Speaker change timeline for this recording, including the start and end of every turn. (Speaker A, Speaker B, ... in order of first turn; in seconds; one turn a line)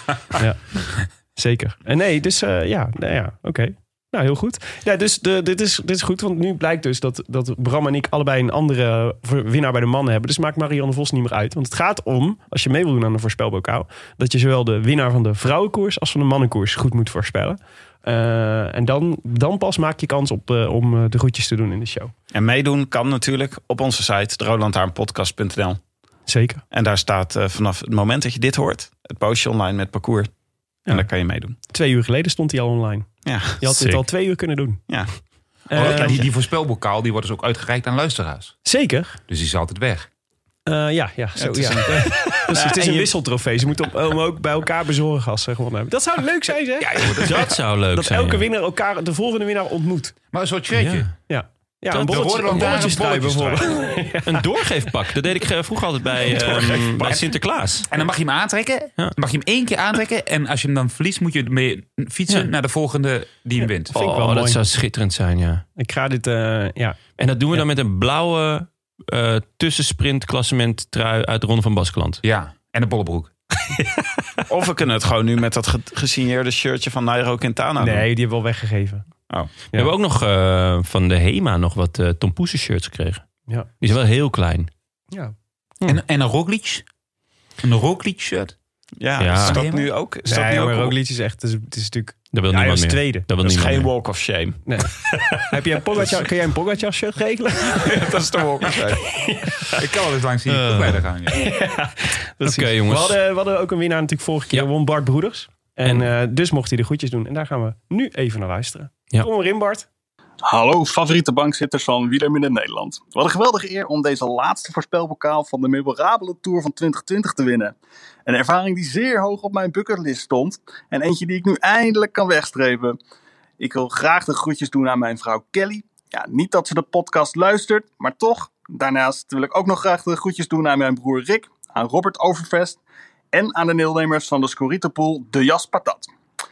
Speaker A: 0.3-22.1
Speaker B: 22.3-25.8
Speaker A: 26.3-26.6
Speaker B: 26.7-30.3
Speaker B: 30.9-31.6
Speaker A: 31.6-34.8
Speaker B: 33.2-33.9
Speaker A: 35.7-36.2
Speaker C: 35.7-38.5
Speaker B: 35.8-36.0
Speaker A: 38.6-39.2
Speaker C: 39.3-40.1
Speaker A: 40.7-47.3
Speaker B: 41.4-43.1
Speaker C: 46.8-47.6
Speaker D: 47.2-48.4
Speaker A: 47.9-50.1
Speaker C: 50.3-51.1
Speaker D: 50.7-51.1
Speaker A: 51.3-54.4
Speaker D: 51.9-53.7
Speaker C: 52.0-53.8
Speaker D: 54.2-57.9
Speaker C: 56.8-57.2
Speaker C: 57.9-63.9
Speaker A: 63.9-64.6
Speaker D: 63.9-65.6
Speaker A: 65.8-67.0
Speaker D: 67.2-72.2
Speaker C: 72.2-73.3
Speaker B: 74.5-78.0
Speaker A: 77.8-79.1
Speaker D: 79.7-83.3
Speaker D: 83.8-84.7
Speaker C: 85.8-86.8
Speaker C: 87.6-88.5
Speaker B: 89.0-90.9
Speaker D: 89.2-89.7
Speaker C: 89.4-89.9
Speaker A: 90.2-93.3
Speaker D: 92.3-93.9
Speaker B: 93.4-94.6
Speaker A: 94.7-98.0
Speaker B: 97.8-99.0
Speaker A: 99.2-99.5
Speaker C: 99.7-101.5
Speaker D: 100.5-101.0
Speaker A: 101.3-109.8
Speaker D: 102.4-103.2
Speaker E: 110.4-117.7
Speaker E: 118.2-123.0
Speaker E: 123.6-132.8
Speaker E: 133.3-136.1